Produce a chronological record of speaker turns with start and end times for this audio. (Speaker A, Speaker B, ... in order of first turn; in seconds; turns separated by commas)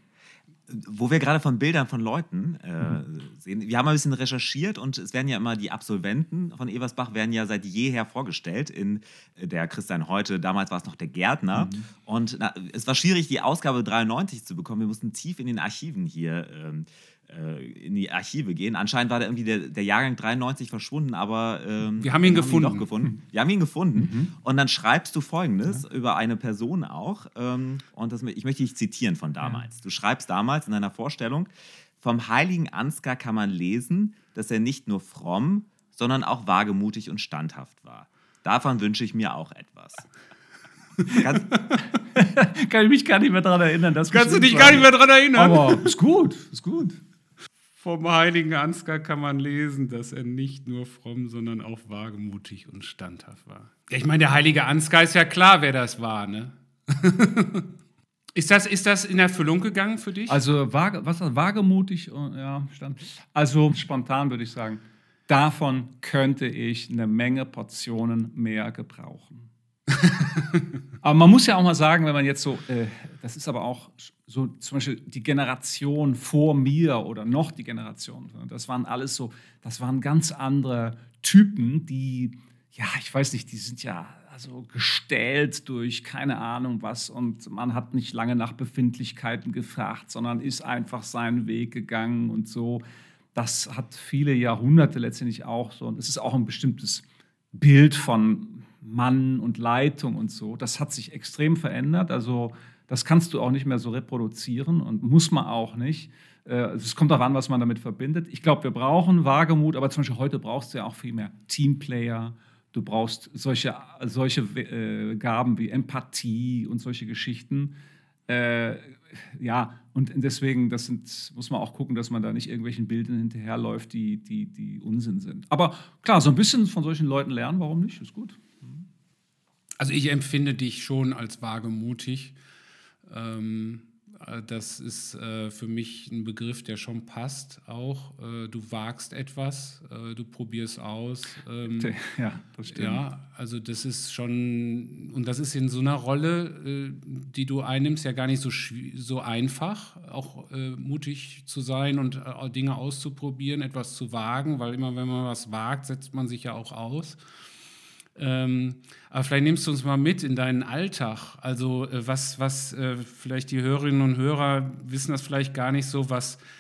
Speaker A: 0.7-40.1, Speaker B: 11.5-11.9, Speaker C: 22.0-22.9, Speaker B: 24.0-24.3, Speaker A: 41.2-41.5, Speaker C: 41.5-41.8, Speaker B: 42.1-47.0, Speaker C: 44.1-45.9, Speaker C: 47.8-57.7, Speaker C: 58.3-60.4, Speaker B: 60.3-69.5, Speaker B: 71.0-92.8, Speaker B: 93.3-117.7, Speaker B: 118.3-128.8, Speaker C: 129.8-132.3, Speaker C: 133.1-141.9, Speaker B: 141.8-143.0, Speaker C: 142.7-157.2, Speaker C: 158.2-166.4